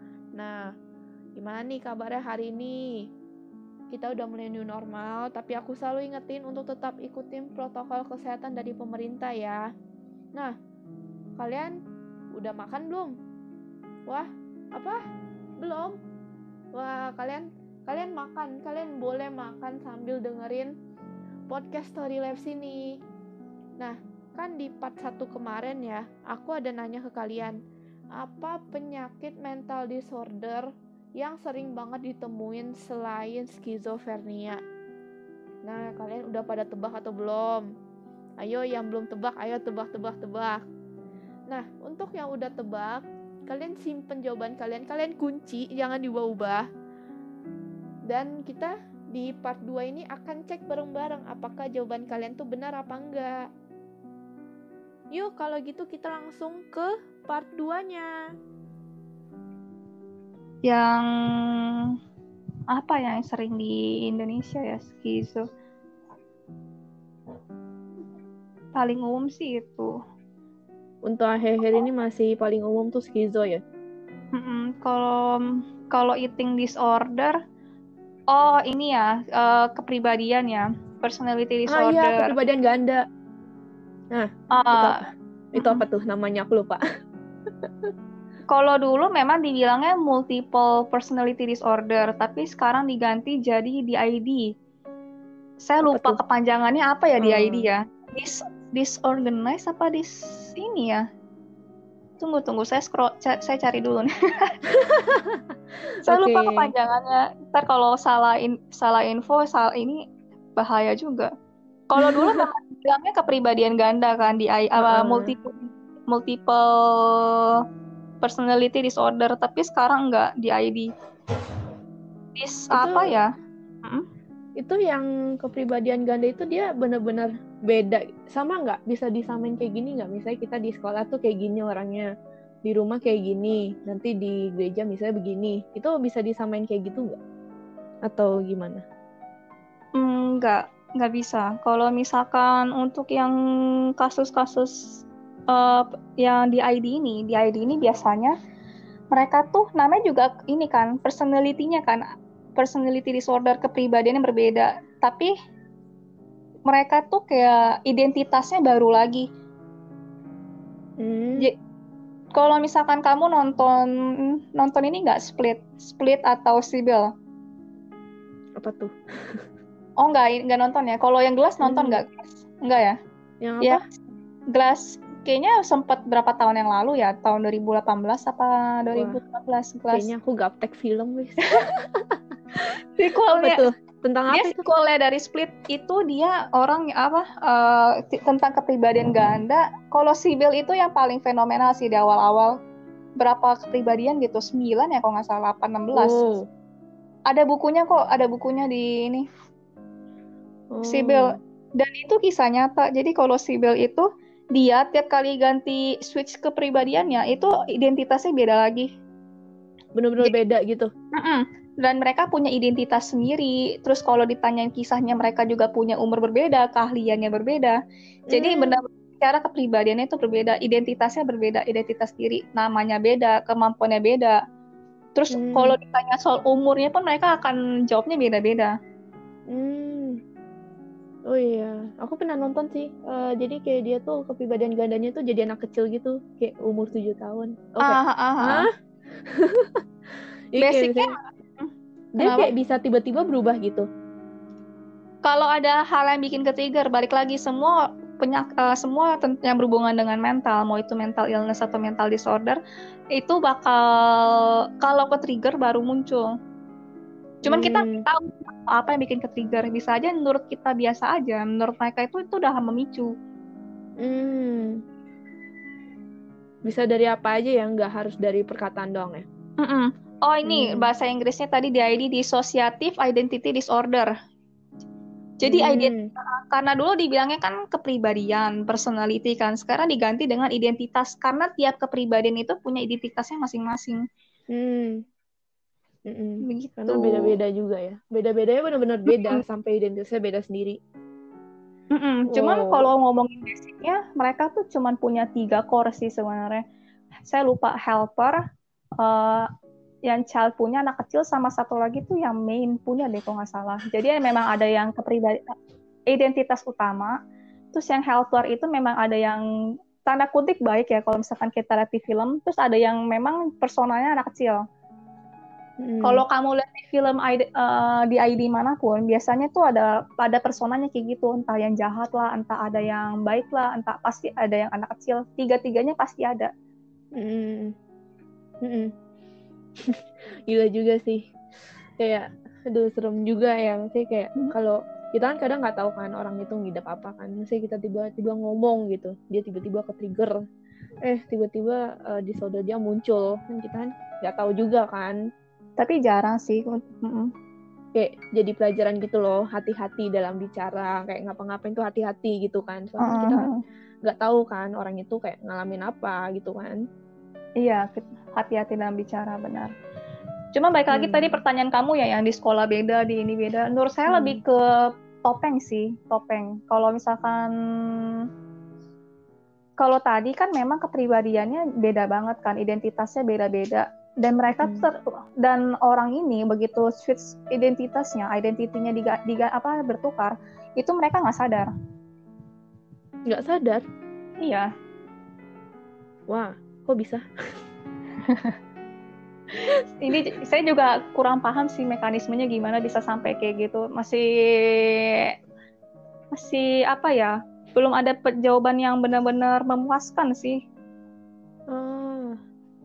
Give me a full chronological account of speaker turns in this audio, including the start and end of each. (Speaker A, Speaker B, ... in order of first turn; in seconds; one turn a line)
Speaker A: 0.3-0.7
Speaker A: 1.4-2.8
Speaker A: 3.9-9.6
Speaker A: 11.4-11.8
Speaker A: 12.3-13.2
Speaker A: 14.1-15.0
Speaker A: 15.6-16.0
Speaker A: 16.8-20.7
Speaker A: 21.5-23.0
Speaker A: 23.8-27.6
Speaker A: 28.2-34.6
Speaker A: 35.7-37.6
Speaker A: 38.4-40.6
Speaker A: 41.5-46.7
Speaker A: 48.1-53.5
Speaker A: 55.1-58.1
Speaker B: 60.6-61.9
Speaker B: 62.7-65.5
Speaker B: 68.7-69.9
Speaker A: 71.0-73.6
Speaker B: 74.3-77.3
Speaker B: 78.3-82.3
Speaker A: 81.7-83.0
Speaker A: 84.1-86.8
Speaker B: 84.5-85.0
Speaker B: 85.6-85.8
Speaker A: 87.6-87.9
Speaker B: 88.5-94.5
Speaker B: 95.6-101.0
Speaker A: 95.8-96.2
Speaker A: 97.2-97.7
Speaker B: 102.2-104.5
Speaker A: 104.7-105.4
Speaker A: 106.1-106.7
Speaker B: 106.1-110.0
Speaker B: 110.6-111.3
Speaker B: 111.9-117.6
Speaker A: 112.0-112.5
Speaker A: 114.8-115.3
Speaker B: 118.2-120.9
Speaker B: 122.4-123.3
Speaker A: 122.7-123.1
Speaker A: 124.6-132.1
Speaker A: 132.7-137.2
Speaker A: 138.1-138.8
Speaker B: 140.0-143.3
Speaker B: 144.0-148.3
Speaker B: 149.1-152.0
Speaker B: 152.6-155.3
Speaker B: 156.7-159.3
Speaker A: 161.0-161.5
Speaker B: 162.3-167.1
Speaker A: 168.6-169.4
Speaker B: 170.0-173.0
Speaker A: 171.6-172.0
Speaker A: 173.4-173.8
Speaker B: 174.5-180.1
Speaker A: 178.9-179.2
Speaker A: 179.9-182.2
Speaker B: 183.0-183.7
Speaker A: 183.3-184.6
Speaker B: 184.3-192.5
Speaker B: 193.2-196.2
Speaker A: 195.9-196.5
Speaker B: 197.3-199.2
Speaker A: 200.7-201.4
Speaker B: 200.9-208.9
Speaker A: 210.0-210.9
Speaker B: 211.1-217.8
Speaker A: 218.3-218.8
Speaker B: 218.3-224.4
Speaker B: 225.2-228.8
Speaker A: 225.3-225.8
Speaker A: 229.5-230.2
Speaker A: 231.3-238.7
Speaker B: 237.8-238.7
Speaker A: 239.3-239.8
Speaker A: 240.5-241.1
Speaker B: 240.6-242.5
Speaker A: 242.2-243.9
Speaker B: 245.3-252.6
Speaker B: 253.2-256.3
Speaker B: 257.4-263.1
Speaker A: 257.4-258.0
Speaker A: 264.0-264.8
Speaker A: 266.6-269.2
Speaker B: 269.6-274.1
Speaker A: 270.4-270.9
Speaker B: 275.4-284.0
Speaker A: 275.4-276.1
Speaker A: 284.5-285.0
Speaker A: 286.1-290.8
Speaker B: 286.4-287.3
Speaker B: 289.1-289.4
Speaker B: 291.9-296.6
Speaker A: 292.3-292.9
Speaker B: 297.2-298.4
Speaker B: 299.0-299.5
Speaker B: 300.1-305.5
Speaker B: 306.1-307.1
Speaker B: 307.7-309.4
Speaker B: 310.0-314.6
Speaker A: 315.8-316.2
Speaker B: 316.0-326.5
Speaker A: 327.1-327.8
Speaker A: 328.6-328.9
Speaker A: 329.9-331.2
Speaker A: 332.0-340.3
Speaker A: 341.0-345.2
Speaker B: 345.8-347.3
Speaker A: 347.9-353.5
Speaker B: 353.0-353.6
Speaker A: 354.1-356.8
Speaker B: 357.6-359.7
Speaker B: 360.5-367.5
Speaker A: 360.9-361.4
Speaker A: 364.1-364.4
Speaker B: 369.8-381.7
Speaker A: 383.3-383.8
Speaker B: 384.4-384.7
Speaker A: 386.3-387.2
Speaker B: 388.2-388.6
Speaker B: 390.0-395.3
Speaker B: 396.3-400.6
Speaker A: 401.7-402.4